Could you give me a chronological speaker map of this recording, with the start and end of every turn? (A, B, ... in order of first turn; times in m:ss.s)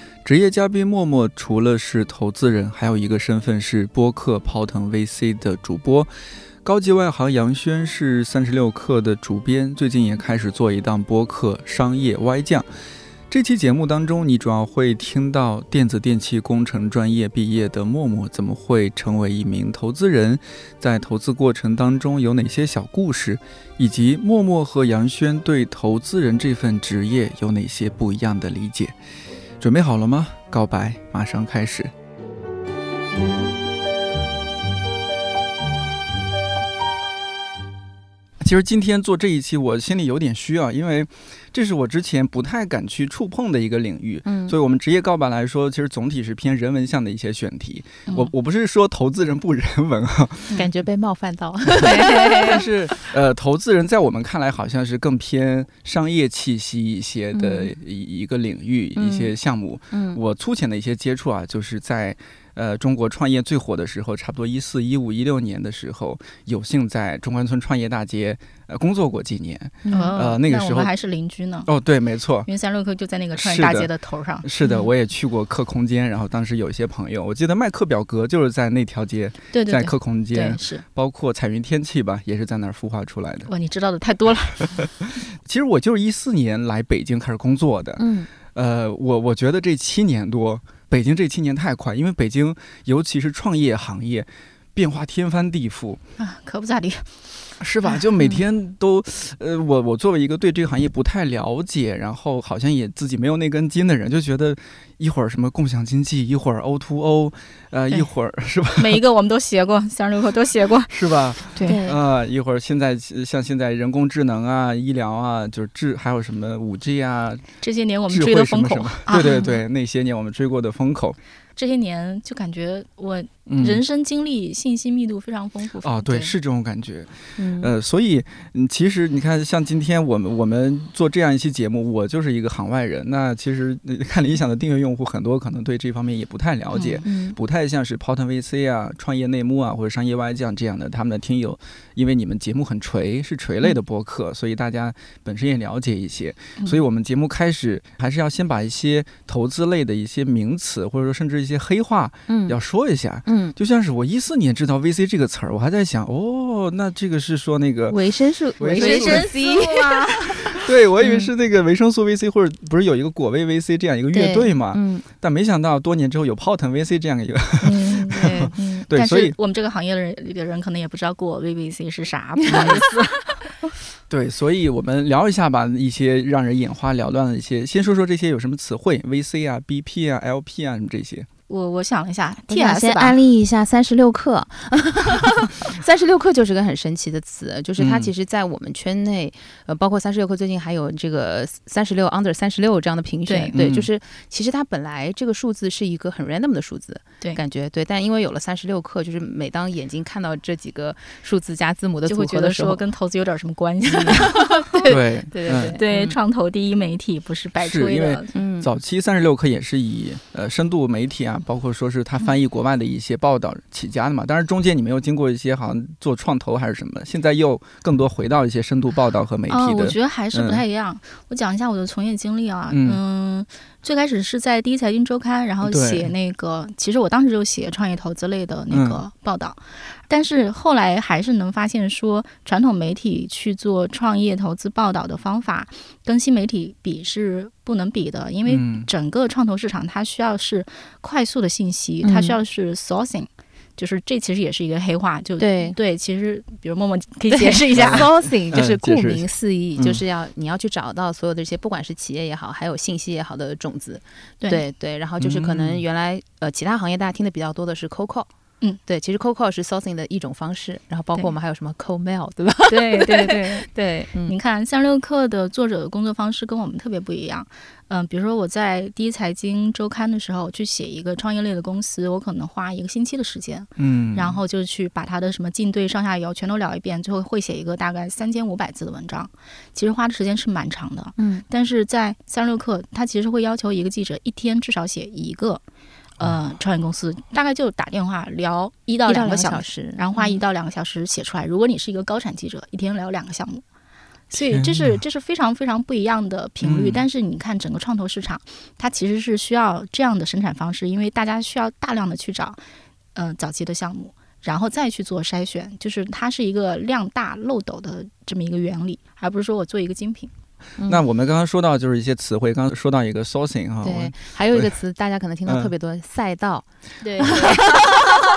0:00.2-0:06.1 A
0:06.6-0:12.6 A
0:13.3-0:28.9 A
0:29.6-0:31.9 A
0:38.4-0:50.6 A
0:44.2-0:44.6 B
0:48.1-0:48.3 C
0:50.5-0:52.6 B
0:51.7-1:10.9 A
0:51.9-0:52.6 C
0:59.0-0:59.3 B
0:59.9-1:00.2 B
1:09.8-1:10.1 B
1:09.9-1:11.7 C
1:11.6-1:12.5 A
1:12.4-1:14.5 C
1:13.3-1:13.9 A
1:14.4-1:23.5 A
1:19.5-1:20.8 C
1:23.5-1:24.8 C
1:24.7-1:36.0 A
1:28.0-1:28.3 B
1:36.2-1:37.1 C
1:37.6-1:49.0 A
1:48.8-1:51.8 C
1:50.9-1:57.5 A
1:51.6-1:52.0 B
1:57.6-1:59.5 C
1:58.1-2:01.2 A
1:59.1-1:59.6 B
2:01.6-2:06.3 C
2:03.5-2:03.8 A
2:05.8-2:38.0 A
2:07.4-2:07.7 B
2:16.7-2:17.0 C
2:17.0-2:17.4 B
2:32.3-2:32.6 B
2:33.2-2:33.5 B
2:37.9-2:41.3 B
2:38.6-2:39.3 A
2:38.7-2:40.6 C
2:40.4-2:49.4 A
2:44.1-2:45.0 B
2:47.6-2:53.6 C
2:48.1-2:48.7 B
2:52.4-2:52.9 B
2:52.5-2:52.8 A
2:54.1-3:01.3 A
3:01.5-3:03.2 C
3:02.5-3:22.8 B
3:07.8-3:08.1 A
3:13.3-3:13.5 C
3:13.5-3:13.9 A
3:22.0-3:25.0 C
3:23.8-3:26.2 B
3:24.8-3:25.8 A
3:25.6-3:28.3 C
3:27.6-3:40.6 A
3:28.3-3:28.7 B
3:39.5-4:08.1 C
3:42.7-3:43.0 A
3:45.6-3:46.1 A
3:48.7-3:49.0 A
3:58.4-3:58.9 A
4:02.0-4:02.4 B
4:05.4-4:05.8 B
4:07.3-4:18.3 B
4:07.7-4:10.0 A
4:15.2-4:15.8 A
4:18.8-4:24.4 B
4:22.7-4:23.6 C
4:24.2-4:45.6 C
4:33.8-4:34.4 A
4:41.2-4:41.4 B
4:46.2-4:53.6 C
4:49.0-4:50.4 B
4:54.3-5:02.6 C
4:54.3-4:55.0 A
4:56.6-4:57.0 A
5:03.1-5:10.3 C
5:10.9-5:14.7 A
5:13.8-5:18.0 B
5:15.4-5:15.7 A
5:17.0-5:18.1 C
5:17.2-5:17.7 A